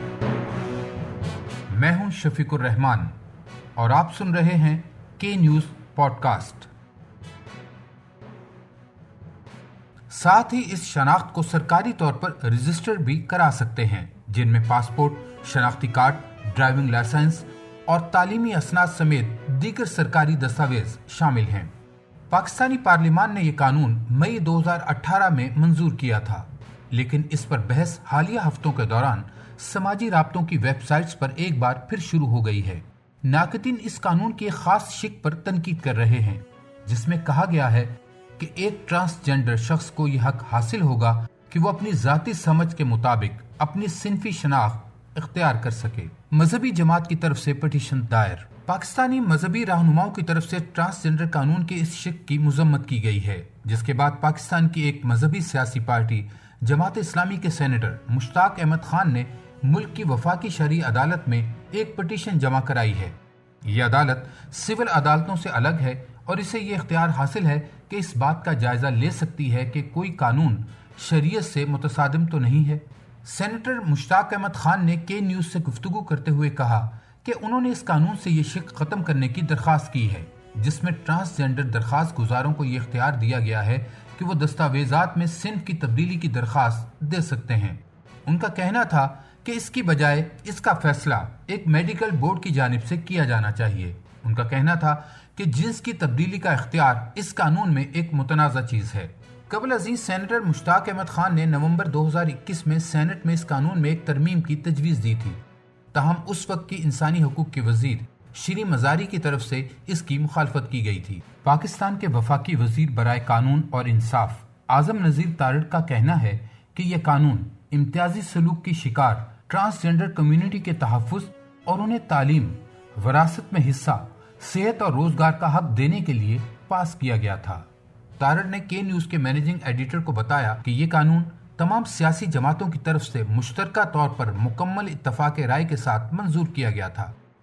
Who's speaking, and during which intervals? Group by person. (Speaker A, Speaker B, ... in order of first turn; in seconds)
Speaker A: 1.7-3.1, 3.8-6.7, 10.1-21.7, 22.3-137.2